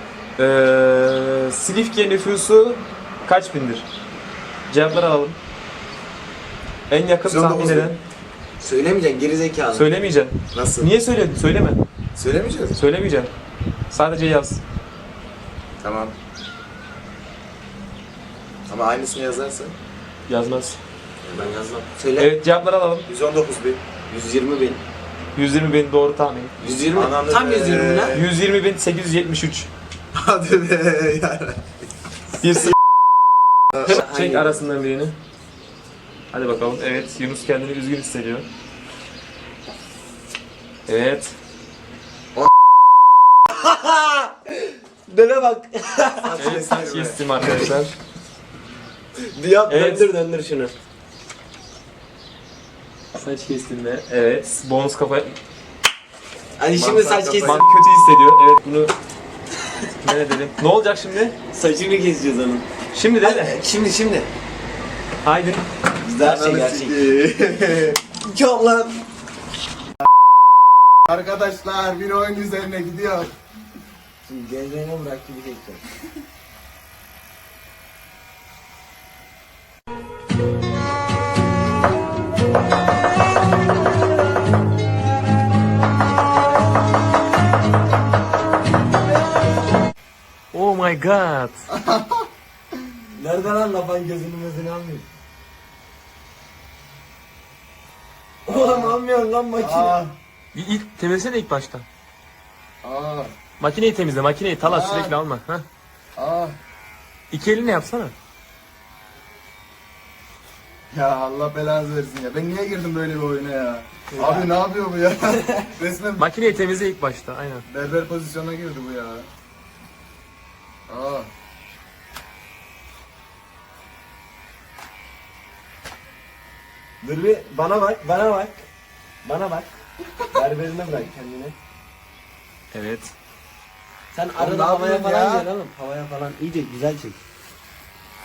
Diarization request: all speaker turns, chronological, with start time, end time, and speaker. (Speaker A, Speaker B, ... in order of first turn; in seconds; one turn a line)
Speaker A: 0.4-3.9
Speaker A: 4.7-5.4
Speaker A: 6.9-8.0
Speaker B: 7.2-7.9
Speaker C: 8.6-9.9
Speaker A: 9.7-11.8
Speaker B: 10.5-10.9
Speaker B: 12.1-12.8
Speaker A: 12.7-13.3
Speaker A: 13.9-14.6
Speaker B: 15.8-16.1
Speaker B: 18.7-19.8
Speaker A: 20.3-20.8
Speaker B: 21.2-21.5
Speaker C: 21.3-22.3
Speaker A: 22.2-23.1
Speaker B: 23.1-23.8
Speaker C: 24.1-24.8
Speaker A: 25.4-26.5
Speaker C: 26.6-28.2
Speaker B: 26.9-28.3
Speaker A: 28.1-29.7
Speaker B: 30.1-31.8
Speaker A: 32.4-32.7
Speaker A: 33.8-35.2
Speaker C: 33.9-34.6
Speaker A: 36.3-38.5
Speaker A: 40.9-41.4
Speaker C: 43.5-46.4
Speaker B: 46.2-47.6
Speaker A: 46.4-48.0
Speaker C: 49.2-50.7
Speaker A: 49.7-50.1
Speaker A: 53.1-55.4
Speaker C: 56.6-57.6
Speaker B: 56.7-57.6
Speaker A: 57.4-58.9
Speaker A: 60.0-61.4
Speaker C: 61.5-64.3
Speaker A: 62.9-63.6
Speaker A: 65.2-65.6
Speaker C: 66.0-67.1
Speaker B: 66.2-68.0
Speaker C: 68.1-69.0
Speaker B: 71.0-73.3
Speaker C: 74.2-75.8
Speaker A: 90.5-91.6
Speaker B: 91.7-92.3
Speaker C: 93.2-95.1
Speaker C: 98.5-100.0
Speaker B: 98.5-99.0
Speaker B: 99.6-100.2
Speaker A: 100.5-101.8
Speaker B: 102.8-103.3
Speaker A: 103.6-105.7
Speaker B: 104.6-105.2
Speaker B: 106.2-106.6
Speaker A: 107.3-108.1
Speaker B: 110.9-116.3
Speaker C: 114.1-114.5
Speaker A: 116.2-117.7
Speaker B: 117.7-119.3
Speaker B: 120.9-121.3
Speaker C: 127.0-128.7
Speaker C: 129.2-129.8
Speaker C: 130.3-131.6
Speaker A: 132.7-133.1
Speaker C: 134.1-137.2
Speaker B: 134.4-135.5